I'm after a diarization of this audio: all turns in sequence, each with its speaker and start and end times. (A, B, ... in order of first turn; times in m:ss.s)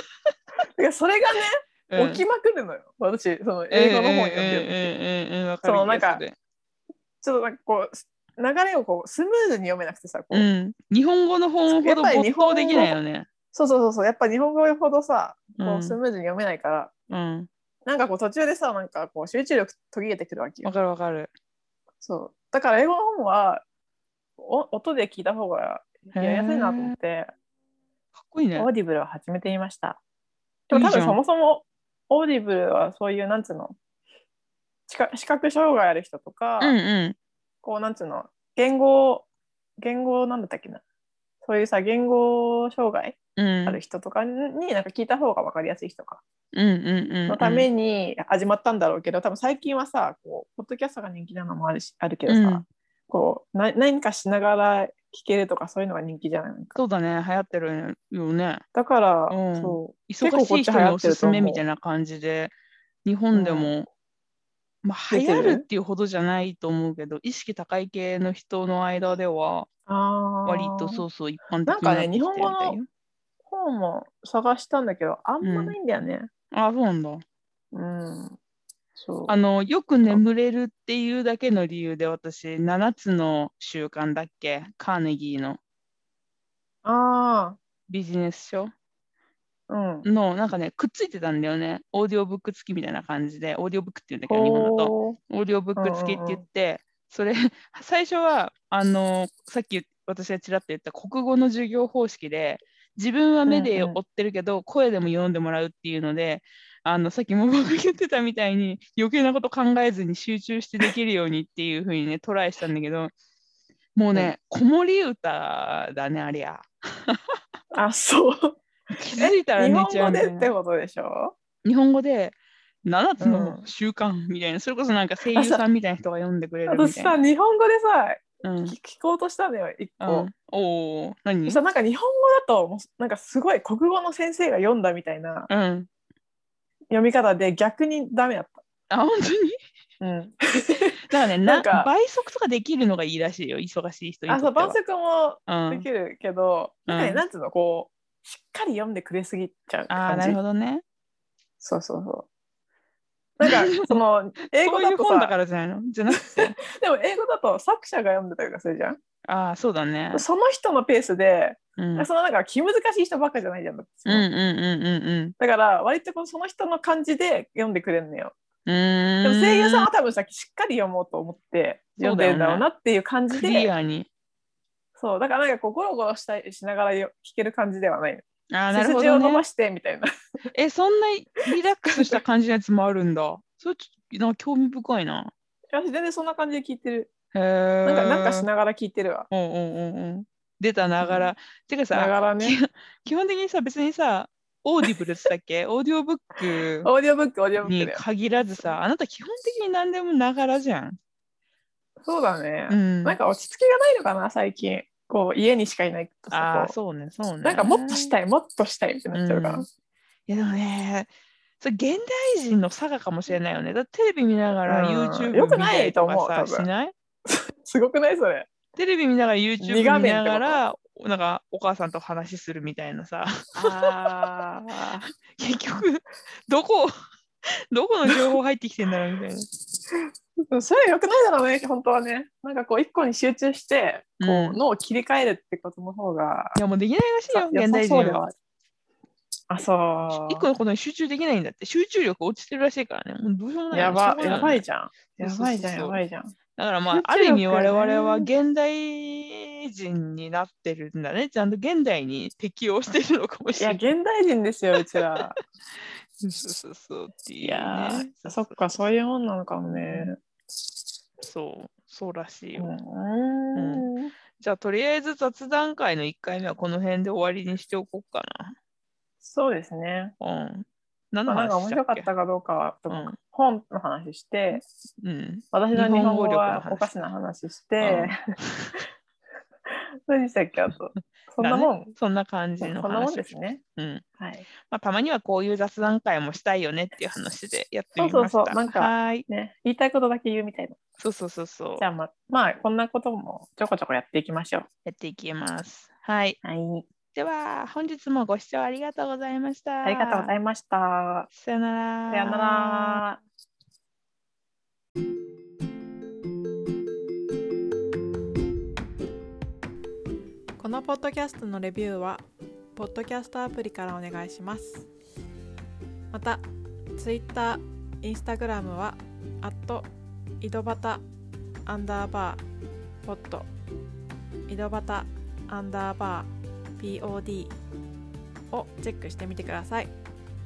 0:00.8-0:04.9 A
0:01.9-0:02.2 B
0:03.7-0:06.4 B
0:05.6-0:06.2 A
0:07.2-0:10.5 A
0:10.3-0:13.3 B
0:11.7-0:13.0 A
0:13.5-0:16.9 A
0:15.6-0:16.0 B
0:17.1-0:17.5 B
0:17.9-0:20.7 A
0:20.6-0:21.3 B
0:22.0-0:23.6 A
0:24.4-0:27.3 A
0:26.1-0:27.0 B
0:28.2-0:28.7 B
0:28.6-0:30.0 A
0:30.7-0:33.8 A
0:30.7-0:31.2 B
0:34.9-0:36.8 A
0:36.6-0:37.2 B
0:37.6-0:39.3 A
0:39.8-0:40.8 A
0:41.4-0:46.2 A
0:43.4-0:43.8 B
0:46.5-0:47.7 B
0:47.3-0:56.8 A
0:52.3-0:52.7 B
0:56.8-0:58.6 B
0:58.7-1:01.6 A
0:59.3-1:02.5 B
1:03.0-1:03.9 B
1:03.3-1:03.7 A
1:04.8-1:09.7 B
1:05.1-1:05.6 A
1:09.9-1:11.0 A
1:10.5-1:12.9 B
1:11.7-1:12.8 A
1:13.5-1:16.3 A
1:15.4-1:15.8 B
1:16.5-1:17.2 B
1:17.7-1:18.4 A
1:19.0-1:19.4 A
1:19.3-1:25.6 B
1:26.8-1:27.6 A
1:27.9-1:28.7 B
1:29.7-1:30.1 A
1:30.0-1:53.1 B
1:34.3-1:35.2 A
1:35.8-1:36.4 A
1:43.5-1:44.0 A
1:54.0-1:57.2 B
1:57.7-1:58.6 A
1:58.9-2:00.5 B
1:59.2-2:01.4 A
2:01.6-2:07.2 B
2:03.2-2:03.7 A
2:05.3-2:05.6 A
2:06.7-2:10.3 A
2:08.4-2:08.8 B
2:10.0-2:11.6 B
2:11.5-2:15.5 A
2:15.5-2:15.9 B
2:16.9-2:18.6 A
2:18.9-2:19.6 B
2:20.0-2:21.9 A
2:21.1-2:24.8 B
2:24.3-2:30.4 A
2:25.5-2:25.8 B
2:26.9-2:27.2 B
2:29.9-2:30.8 B
2:31.6-2:32.3 A
2:33.4-2:35.3 A
2:33.4-2:33.9 B
2:34.6-2:36.6 B
2:36.1-2:39.0 A
2:39.2-2:40.2 B
2:40.1-2:44.3 A
2:41.8-2:42.1 B
2:44.1-2:45.4 B
2:45.4-2:48.3 A
2:48.7-2:49.9 B
2:49.2-2:53.7 A
2:52.0-2:52.6 B
2:53.3-2:54.1 B
2:55.0-3:00.1 A
2:58.5-2:59.4 B
3:00.5-3:05.3 B
3:01.9-3:02.2 A
3:05.7-3:07.1 A
3:07.3-3:08.5 B
3:07.8-3:09.3 A
3:09.3-3:16.9 B
3:11.0-3:11.3 A
3:11.9-3:12.6 A
3:16.8-3:18.0 A
3:17.6-3:21.0 B
3:22.0-3:26.8 A
3:22.7-3:23.2 B
3:26.3-3:28.2 B
3:27.4-3:29.7 A
3:29.1-3:29.7 B
3:30.3-3:36.9 B
3:34.7-3:36.7 A
3:37.3-3:38.5 A
3:38.8-3:44.3 B
3:39.6-3:40.6 A
3:43.6-3:45.1 A
3:45.2-3:46.9 B
3:47.7-3:49.5 B
3:50.5-3:56.6 A
3:54.2-3:54.6 B
3:56.6-3:58.2 B
3:57.3-3:58.3 A
3:59.5-4:00.5 A
4:00.1-4:04.6 B
4:03.7-4:06.3 A
4:05.2-4:06.0 B
4:06.6-4:13.8 B
4:06.9-4:08.3 A
4:13.6-4:15.4 A
4:14.8-4:15.2 B
4:16.2-4:18.5 B
4:17.4-4:20.2 A
4:19.7-4:20.1 B
4:21.2-4:22.7 B
4:22.6-4:24.1 A
4:23.6-4:28.6 B
4:29.2-4:30.1 A
4:30.2-4:32.1 B
4:31.3-4:34.6 A
4:32.9-4:33.2 B
4:35.0-4:36.9 B
4:35.5-4:38.2 A
4:37.8-4:38.8 B
4:39.7-4:41.9 A
4:41.4-4:44.1 B
4:42.6-4:43.6 A
4:44.2-4:44.4 A
4:44.6-4:49.3 B
4:48.0-4:50.8 A
4:51.0-4:51.9 B
4:51.8-4:54.7 A
4:54.9-4:56.4 B
4:56.4-4:56.9 A
4:57.1-5:00.3 B
4:59.8-5:01.3 A
5:01.3-5:03.0 B
5:02.1-5:03.2 A
5:10.6-5:12.2 C
5:12.8-5:14.9 C
5:16.1-5:16.4 C
5:17.0-5:19.9 C
5:20.4-5:21.0 C
5:21.7-5:22.4 C
5:23.0-5:23.5 C
5:24.5-5:27.5 C
5:28.5-5:29.9 C